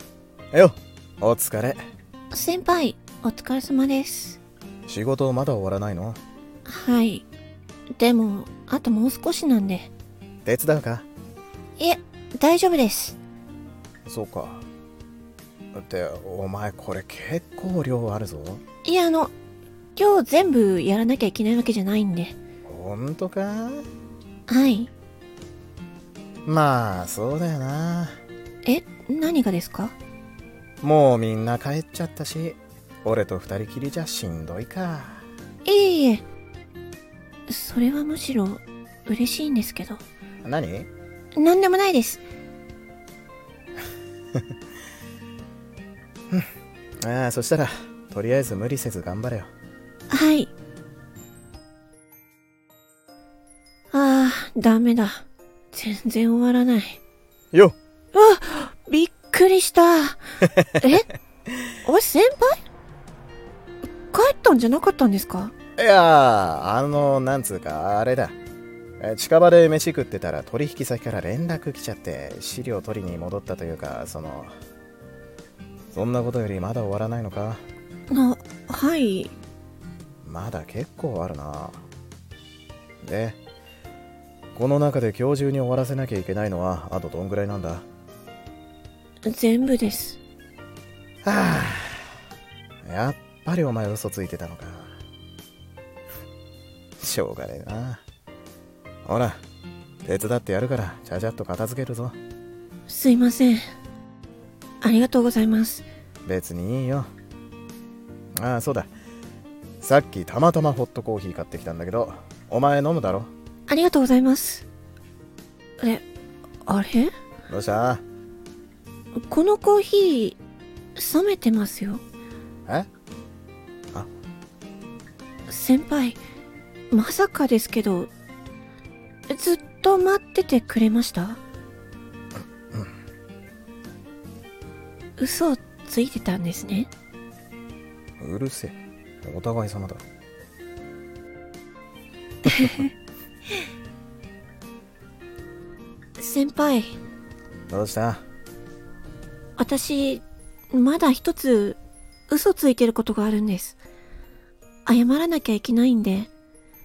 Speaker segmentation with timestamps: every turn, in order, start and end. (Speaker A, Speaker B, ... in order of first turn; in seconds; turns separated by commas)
Speaker A: 0.5-1.8, Speaker B: 2.3-4.4, Speaker A: 4.9-6.2, Speaker B: 6.6-7.3, Speaker B: 8.0-9.9, Speaker A: 10.4-11.1, Speaker B: 11.8-13.2, Speaker A: 14.1-14.6, Speaker A: 15.7-18.6, Speaker B: 18.8-19.3, Speaker B: 19.9-22.4, Speaker A: 22.6-23.8, Speaker B: 24.5-24.9, Speaker A: 26.4-28.2, Speaker B: 28.6-30.0, Speaker A: 30.8-35.2, Speaker B: 35.6-36.2, Speaker B: 37.5-40.0, Speaker A: 40.4-40.9, Speaker B: 41.4-42.2, Speaker A: 47.0-49.5, Speaker B: 50.1-50.5, Speaker B: 53.9-57.0, Speaker B: 58.1-61.1, Speaker B: 61.8-62.6, Speaker B: 64.1-65.5, Speaker A: 65.8-68.3, Speaker A: 69.0-74.5, Speaker A: 75.9-77.6, Speaker B: 78.1-79.3, Speaker A: 80.2-81.8, Speaker A: 83.0-83.4, Speaker A: 84.5-87.8, Speaker B: 89.2-90.2, Speaker A: 91.2-92.1, Speaker A: 92.8-94.9, Speaker A: 97.0-98.0, Speaker A: 99.0-99.4, Speaker A: 100.0-102.2, Speaker B: 102.9-103.7, Speaker B: 104.8-105.8, Speaker A: 106.2-107.1, Speaker A: 108.3-108.9, Speaker A: 109.8-113.3, Speaker B: 113.7-114.7, Speaker B: 116.6-117.1, Speaker A: 117.5-118.0, Speaker B: 119.2-120.4, Speaker B: 121.0-122.0, Speaker B: 125.5-126.2, Speaker B: 126.9-128.1, Speaker B: 129.3-131.4, Speaker B: 135.2-136.9, Speaker A: 138.2-140.0, Speaker B: 142.4-142.8, Speaker B: 146.2-147.0, Speaker A: 147.7-148.2, Speaker B: 149.6-153.8, Speaker B: 154.8-156.3